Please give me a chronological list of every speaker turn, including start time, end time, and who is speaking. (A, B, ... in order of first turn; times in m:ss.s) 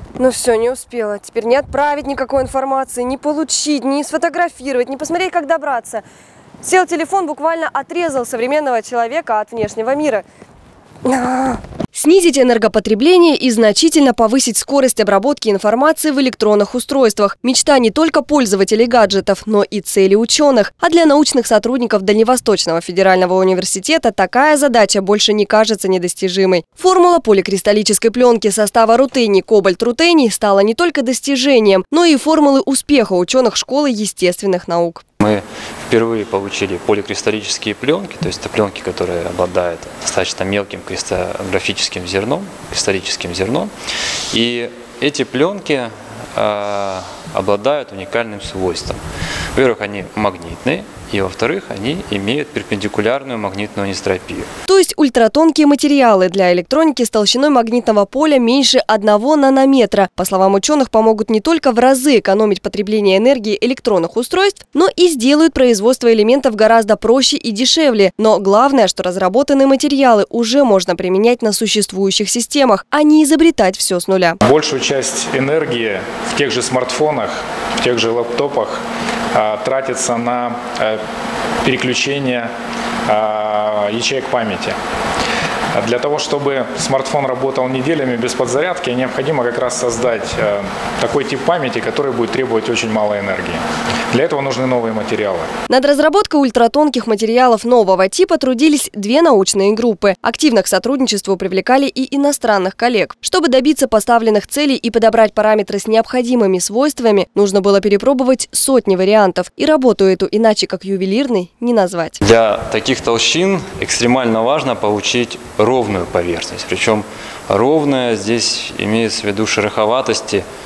0:00.2-0:06.0 A
0:06.6-0:10.2 A
0:11.0-0:35.0 A
0:35.2-0:43.7 B
0:44.3-0:49.0 B
0:49.5-0:54.5 B
0:54.7-1:14.4 A
1:14.4-1:18.8 C
1:19.3-1:21.0 C
1:21.6-1:22.5 C
1:23.1-1:24.8 C
1:25.8-1:35.5 C
1:35.7-1:52.2 A
1:52.2-2:00.4 B